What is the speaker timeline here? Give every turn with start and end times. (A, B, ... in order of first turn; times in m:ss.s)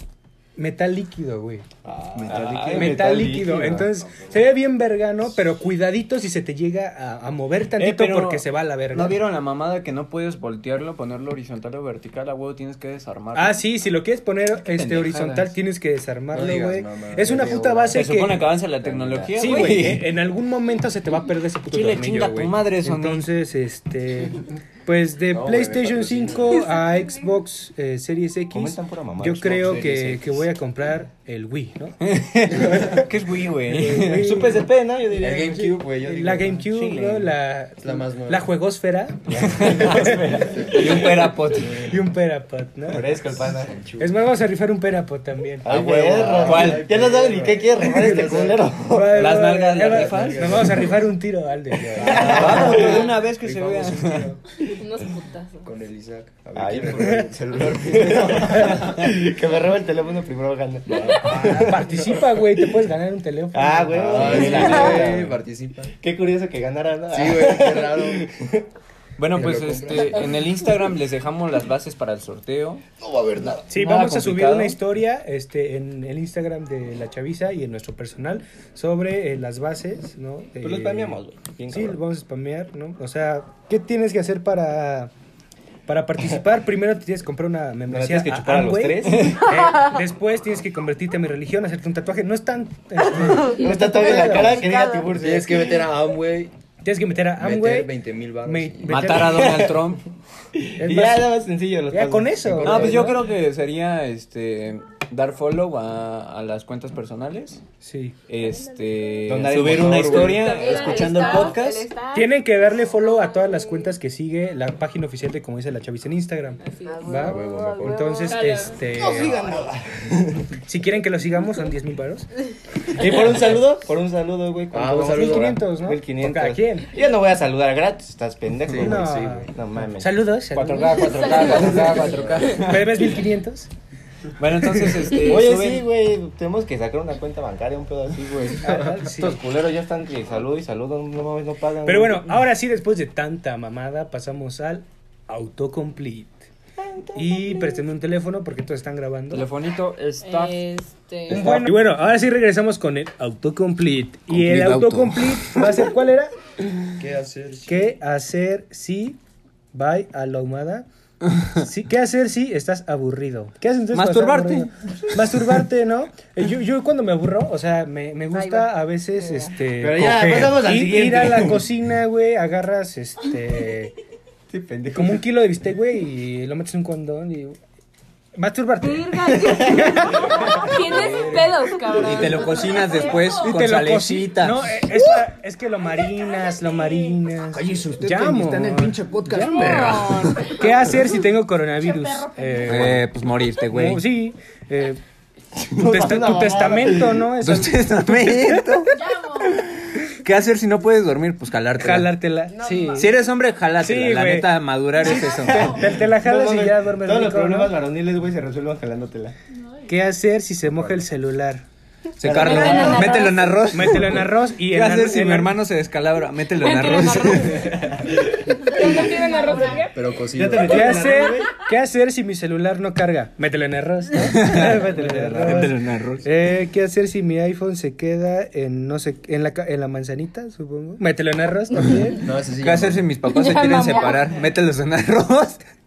0:00.6-0:01.7 A
0:01.9-0:02.9 B
0:02.2-0:03.9 C
0:02.3-0:03.0 D
0:02.7-0:09.2 A
0:07.8-0:13.6 D
0:13.4-0:18.5 A
0:14.6-0:15.5 D
0:16.3-0:18.1 B
0:17.9-0:20.1 D
0:18.8-0:19.7 C
0:19.4-0:32.0 A
0:21.7-0:23.3 D
0:25.3-0:26.8 B
0:28.5-0:30.4 C
0:29.6-0:29.9 B
0:32.0-0:34.3 D
0:32.5-0:33.1 A
0:33.7-0:34.7 A
0:34.1-0:35.9 C
0:35.2-0:36.6 B
0:35.9-0:43.1 A
0:36.5-0:37.3 C
0:37.8-0:38.5 B
0:39.3-0:40.9 C
0:39.5-0:40.0 D
0:40.7-0:41.9 D
0:42.9-0:43.8 C
0:43.4-0:44.2 B
0:44.0-0:46.5 A
0:45.6-0:49.4 C
0:45.6-0:48.7 B
0:46.4-0:46.9 D
0:47.8-0:53.0 A
0:49.1-0:50.6 D
0:49.7-0:51.1 B
0:51.9-0:54.4 B
0:52.0-0:52.8 C
0:52.0-0:54.3 D
0:54.7-0:55.7 E
0:55.6-0:58.8 B
0:56.6-1:02.2 C
0:58.5-0:59.1 D
1:00.9-1:01.6 B
1:01.2-1:05.0 A
1:03.5-1:05.4 C
1:03.9-1:05.9 B
1:04.2-1:05.0 D
1:06.0-1:08.6 C
1:07.1-1:08.5 B
1:09.2-1:12.8 D
1:09.3-1:10.5 B
1:13.0-1:13.6 C
1:13.7-1:14.8 D
1:13.7-1:21.2 A
1:20.6-1:22.0 C
1:21.7-1:25.1 A
1:25.9-1:34.8 A
1:27.9-1:29.5 C
1:33.2-1:35.7 C
1:33.4-1:35.1 E
1:35.1-1:36.5 B
1:36.8-1:37.9 A
1:37.4-1:39.2 B
1:38.4-1:39.7 A
1:38.9-1:40.0 D
1:39.3-1:39.8 C
1:40.6-1:43.1 C
1:40.8-1:41.3 A
1:41.9-1:43.2 A
1:42.5-1:43.0 B
1:42.6-1:47.6 D
1:47.8-1:48.2 A
1:48.3-1:51.9 D
1:49.3-1:50.7 C
1:49.6-1:50.4 B
1:50.2-1:52.4 E
1:52.1-1:59.6 A
1:53.0-1:54.0 E
1:56.6-1:58.8 E
1:57.2-1:58.3 B
1:58.9-2:00.6 C
2:00.5-2:02.3 A
2:02.9-2:10.2 C
2:04.7-2:05.6 B
2:05.1-2:06.9 A
2:08.7-2:09.0 D
2:08.7-2:13.7 A
2:10.5-2:13.0 D
2:10.7-2:12.2 E
2:11.9-2:12.6 B
2:14.4-2:15.9 D
2:14.8-2:15.1 A
2:15.2-2:22.4 C
2:18.6-2:19.4 A
2:21.8-2:26.5 A
2:27.2-2:29.5 A
2:27.2-2:27.6 C
2:29.3-2:30.7 D
2:30.2-2:31.5 E
2:31.3-2:31.7 C
2:31.3-2:36.3 A
2:34.3-2:35.8 D
2:37.0-2:38.0 B
2:37.7-2:39.2 A
2:39.7-2:40.9 A
2:41.5-2:54.0 A
2:43.9-2:44.7 D
2:48.3-2:49.5 E
2:49.8-2:51.6 C
2:50.0-2:50.6 D
2:54.5-2:55.3 C
2:54.9-2:57.6 A
2:58.4-3:00.8 A
2:58.8-3:03.7 E
2:59.7-3:00.6 C
3:00.7-3:05.2 D
3:03.2-3:13.1 A
3:06.4-3:07.1 E
3:07.5-3:10.6 D
3:09.5-3:10.9 E
3:11.8-3:12.9 E
3:12.6-3:14.0 D
3:13.7-3:15.0 A
3:15.6-3:17.3 C
3:15.8-3:19.0 A
3:17.4-3:22.2 D
3:19.0-3:19.6 E
3:21.8-3:23.1 A
3:22.5-3:23.1 E
3:23.0-3:25.8 D
3:23.8-3:27.8 A
3:25.2-3:25.7 E
3:25.4-3:29.4 C
3:29.9-3:31.6 A
3:30.6-3:31.0 B
3:32.2-3:37.9 D
3:32.2-3:33.1 C
3:32.4-3:33.6 E
3:32.7-3:35.5 A
3:36.6-3:38.0 E
3:37.6-3:39.0 C
3:38.5-3:40.0 E
3:39.9-3:41.0 B
3:40.3-3:41.5 C
3:40.6-3:52.3 A
3:44.2-3:44.9 D
3:44.5-3:45.8 C
3:45.4-3:46.3 D
3:52.2-3:53.1 B
3:52.6-3:55.6 D
3:53.3-3:54.2 E